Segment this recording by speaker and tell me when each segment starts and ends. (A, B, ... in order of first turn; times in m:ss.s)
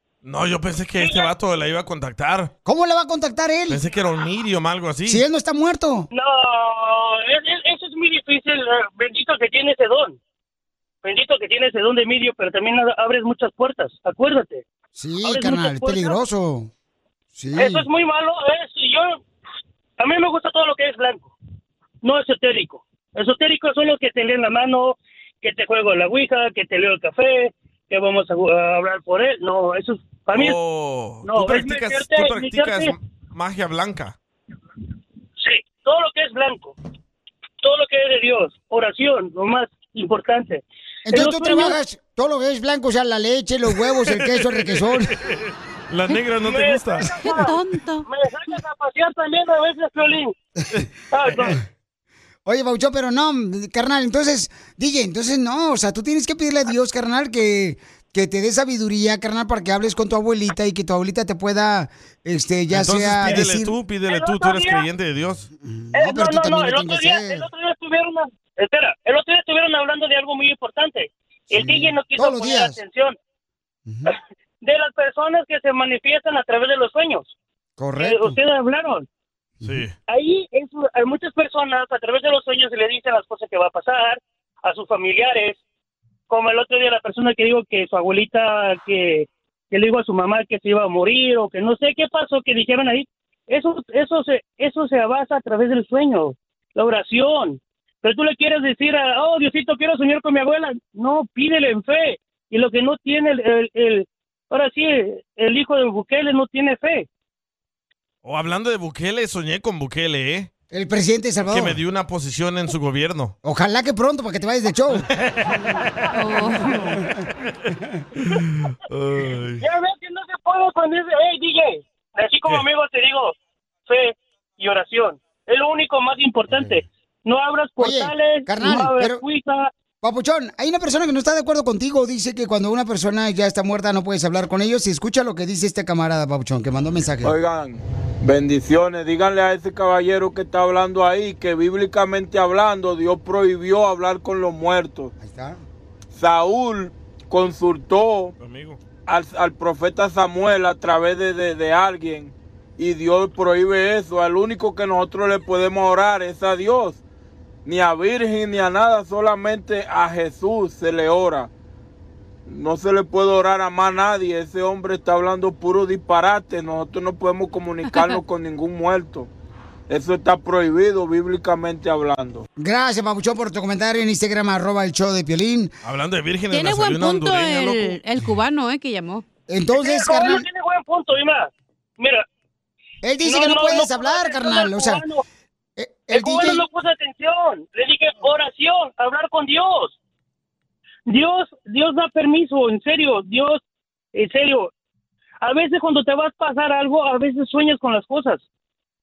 0:00.2-0:02.5 A
0:01.0-0:01.3 B
0:02.6-0:03.8 C
0:03.7-0:05.2 A
0:05.0-0:06.1 C
0:06.1-0:10.2 B
0:11.0-0:14.6 B
0:14.9-0:16.7 C
0:15.2-0:16.2 B
0:17.3-0:17.8 C
0:17.6-0:19.2 B
0:20.0-0:21.3 B
0:22.0-0:30.6 B
0:30.3-0:34.1 A
0:31.2-0:32.9 B
0:35.4-0:36.7 B
0:37.6-0:41.7 B
0:41.0-0:45.1 C
0:44.1-0:47.2 A
0:46.4-0:50.3 B
0:47.2-0:48.1 D
0:51.1-0:51.6 B
0:52.4-1:03.7 C
1:02.7-1:05.5 A
1:04.1-1:04.8 B
1:05.6-1:07.5 C
1:05.9-1:13.2 B
1:11.5-1:12.8 C
1:13.8-1:14.1 C
1:14.1-1:17.3 B
1:17.8-1:18.4 C
1:18.0-1:19.1 B
1:19.6-1:19.9 A
1:20.1-1:25.6 B
1:26.3-1:47.1 B
1:48.2-1:50.5 A
1:50.7-1:51.8 C
1:51.4-1:53.3 A
1:53.4-1:55.1 C
1:55.1-1:55.5 A
1:56.1-1:56.9 D
1:58.2-1:59.6 A
1:59.6-2:03.3 B
2:03.9-2:09.7 B
2:06.5-2:06.8 C
2:07.8-2:09.2 C
2:10.0-2:17.3 C
2:17.2-2:25.1 E
2:25.2-2:25.6 C
2:26.1-2:28.3 E
2:28.4-2:28.8 A
2:29.1-2:37.0 E
2:37.6-2:41.5 E
2:42.4-2:49.3 E
2:49.9-2:52.4 E
2:52.6-2:55.7 C
2:55.8-2:58.0 A
2:56.5-2:59.2 D
2:59.5-3:00.4 C
2:59.7-3:02.2 B
3:03.0-3:05.0 C
3:03.2-3:05.2 B
3:05.8-3:06.6 C
3:06.1-3:10.0 B
3:11.1-3:13.6 B
3:14.1-3:14.7 B
3:15.4-3:18.4 B